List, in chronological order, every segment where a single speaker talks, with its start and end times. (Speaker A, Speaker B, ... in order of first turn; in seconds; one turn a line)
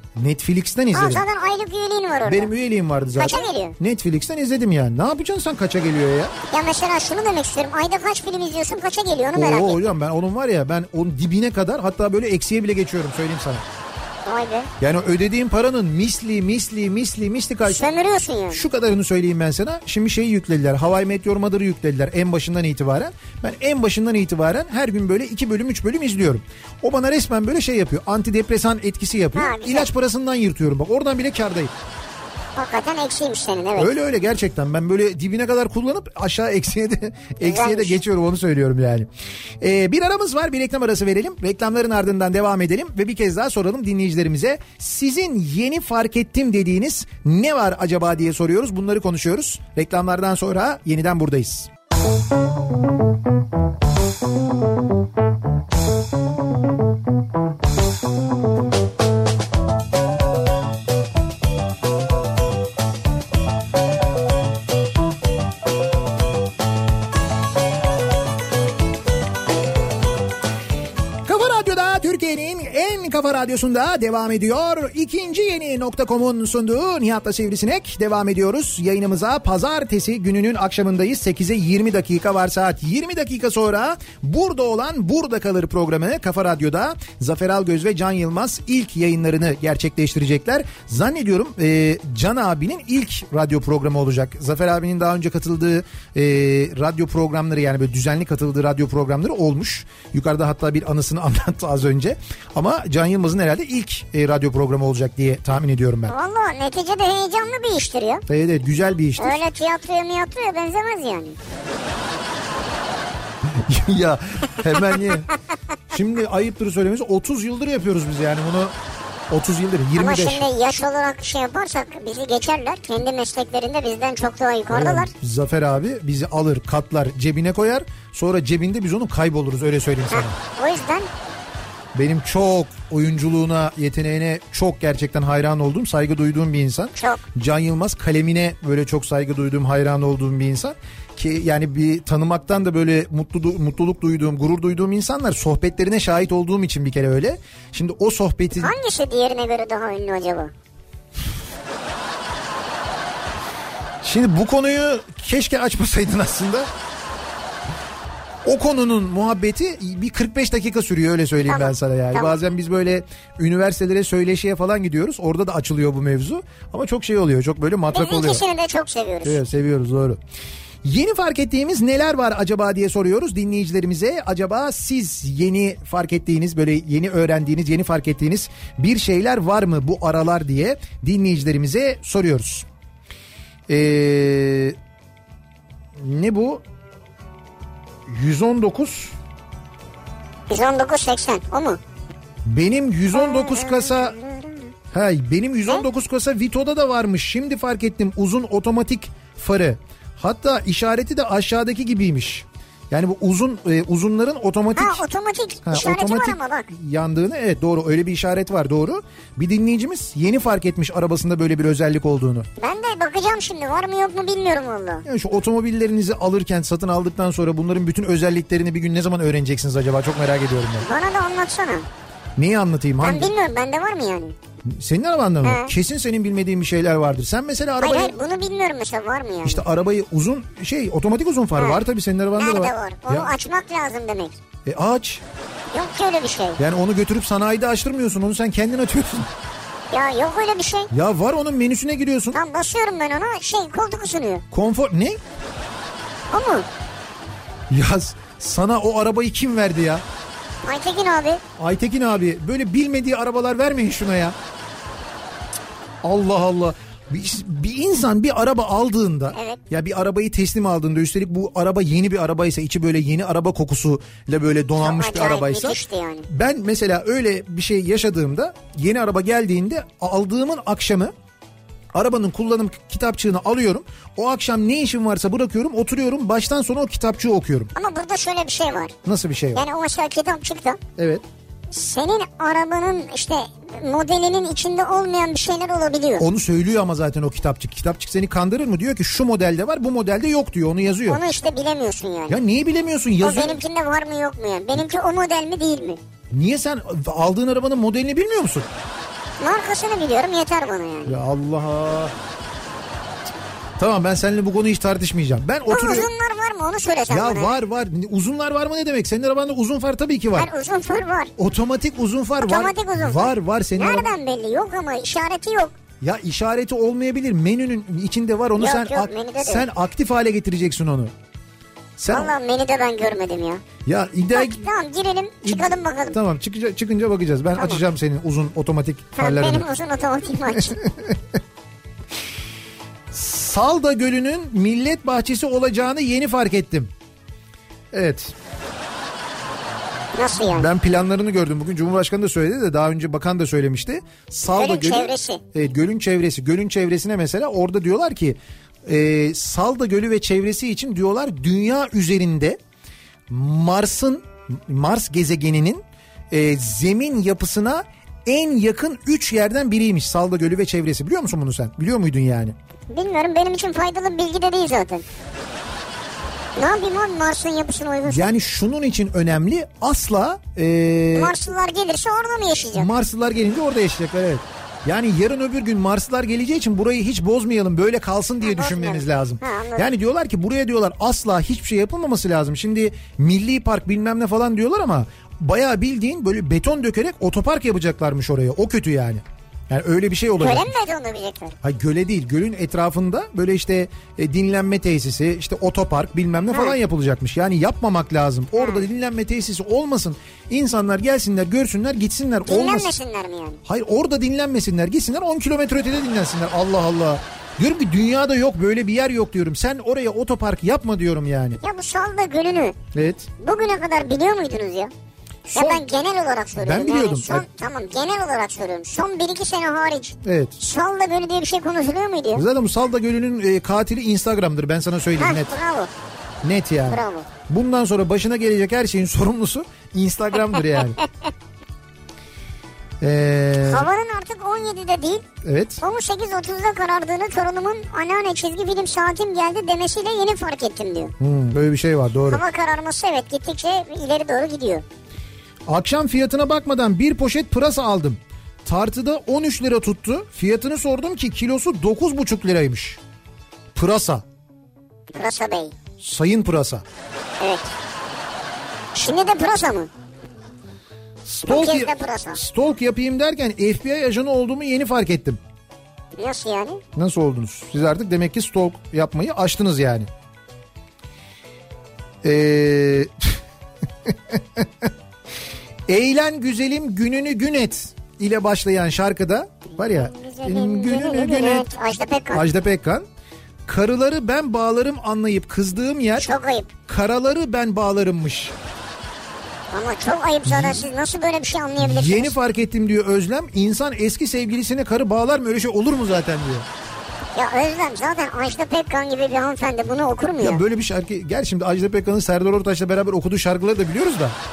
Speaker A: 0.2-1.2
Speaker B: 0.9-2.5
Speaker A: 2.2-6.3
Speaker B: 3.2-3.8
Speaker B: 6.5-9.9
Speaker A: 9.3-13.7
Speaker B: 14.3-14.7
Speaker A: 14.8-17.9
Speaker B: 17.7-18.6
Speaker A: 18.5-31.7
Speaker B: 29.3-29.9
Speaker B: 32.6-33.9
Speaker A: 33.8-39.1
Speaker B: 37.4-38.0
Speaker A: 39.6-51.7
Speaker A: 71.2-106.1
Speaker B: 106.1-108.2
Speaker A: 108.3-109.4
Speaker B: 109.2-111.4
Speaker A: 113.5-115.3
Speaker A: 115.9-118.7
Speaker A: 119.3-120.5
Speaker B: 120.0-125.1
Speaker A: 124.7-130.4
Speaker B: 130.1-131.1
Speaker A: 131.9-148.7
Speaker B: 137.0-137.2
Speaker B: 148.6-150.5
Speaker A: 154.0-156.7
Speaker A: 158.4-168.4
Speaker B: 161.5-162.4
Speaker B: 167.9-169.4
Speaker A: 169.2-170.2
Speaker A: 170.8-182.7
Speaker A: 183.7-184.8
Speaker A: 186.0-186.6
Speaker A: 188.1-189.2
Speaker B: 190.5-191.8
Speaker A: 192.4-194.2
Speaker B: 193.1-194.7
Speaker A: 194.9-205.0
Speaker B: 204.8-206.7
Speaker A: 205.7-212.5
Speaker B: 212.6-215.1
Speaker A: 215.1-220.9
Speaker B: 220.8-221.9
Speaker A: 222.4-223.3
Speaker B: 223.0-224.4
Speaker A: 224.7-228.2
Speaker B: 225.4-225.7
Speaker B: 227.8-229.6
Speaker A: 229.4-233.3
Speaker B: 231.6-231.8
Speaker B: 232.4-234.4
Speaker A: 234.7-235.2
Speaker B: 235.7-236.6
Speaker A: 236.6-239.3
Speaker B: 239.9-240.9
Speaker A: 240.9-242.4
Speaker B: 242.3-244.4
Speaker A: 244.5-245.2
Speaker B: 246.3-246.7
Speaker A: 247.7-250.0
Speaker B: 250.6-251.4
Speaker A: 251.6-254.4
Speaker A: 256.0-271.1
Speaker B: 259.3-259.6
Speaker B: 264.8-266.3
Speaker A: 271.9-277.7
Speaker B: 277.8-278.9
Speaker A: 279.1-279.6
Speaker B: 279.5-280.8
Speaker A: 281.0-281.2
Speaker B: 281.7-286.3
Speaker A: 286.2-291.2
Speaker B: 291.1-292.4
Speaker A: 292.3-293.6
Speaker B: 293.2-296.0
Speaker A: 296.3-298.7
Speaker B: 299.4-301.2
Speaker A: 301.1-302.1
Speaker A: 303.8-306.1
Speaker B: 305.7-307.6
Speaker A: 307.1-310.5
Speaker B: 310.4-311.3
Speaker A: 311.4-314.1
Speaker B: 312.4-315.7
Speaker A: 316.0-321.1
Speaker B: 318.6-319.6
Speaker A: 322.0-322.3
Speaker B: 322.1-323.6
Speaker A: 323.9-324.6
Speaker B: 324.3-326.2
Speaker A: 325.4-329.7
Speaker B: 327.6-327.8
Speaker B: 329.2-330.8
Speaker A: 330.6-331.2
Speaker A: 333.1-336.9
Speaker A: 337.9-338.3
Speaker B: 340.1-340.7
Speaker A: 340.5-352.6
Speaker B: 344.5-345.4
Speaker A: 353.3-362.6
Speaker B: 362.9-365.1
Speaker B: 366.6-368.3
Speaker A: 368.1-371.4
Speaker B: 371.1-372.9
Speaker A: 372.8-390.7
Speaker B: 378.4-379.9
Speaker B: 390.4-391.6
Speaker A: 391.6-403.0
Speaker B: 396.5-396.8
Speaker B: 398.6-398.9
Speaker B: 402.5-403.6
Speaker A: 403.6-411.6
Speaker B: 411.6-412.8
Speaker A: 412.9-413.3
Speaker B: 413.4-414.9
Speaker A: 415.5-415.8
Speaker B: 415.6-422.4
Speaker A: 416.6-417.4
Speaker A: 420.2-420.6
Speaker A: 422.3-425.6
Speaker B: 425.2-425.9
Speaker A: 426.4-431.0
Speaker B: 426.9-427.3
Speaker A: 433.0-433.9
Speaker B: 433.6-435.3
Speaker A: 435.4-435.8
Speaker B: 435.8-441.1
Speaker A: 441.2-442.4
Speaker B: 442.3-444.9
Speaker A: 445.7-453.0
Speaker A: 453.8-454.2
Speaker B: 455.1-455.8
Speaker A: 456.0-456.8
Speaker B: 457.4-457.7
Speaker B: 458.9-459.9
Speaker A: 461.3-465.4
Speaker B: 461.4-462.4
Speaker B: 466.2-466.8
Speaker A: 466.9-470.1
Speaker A: 472.2-473.4
Speaker A: 474.1-474.9
Speaker A: 475.9-481.7
Speaker B: 479.8-482.4
Speaker A: 482.3-483.1
Speaker A: 483.7-486.3
Speaker B: 486.2-486.7
Speaker A: 486.9-488.6
Speaker B: 489.7-492.3
Speaker A: 490.5-490.9
Speaker A: 491.8-496.7
Speaker B: 497.4-500.6
Speaker A: 500.4-504.4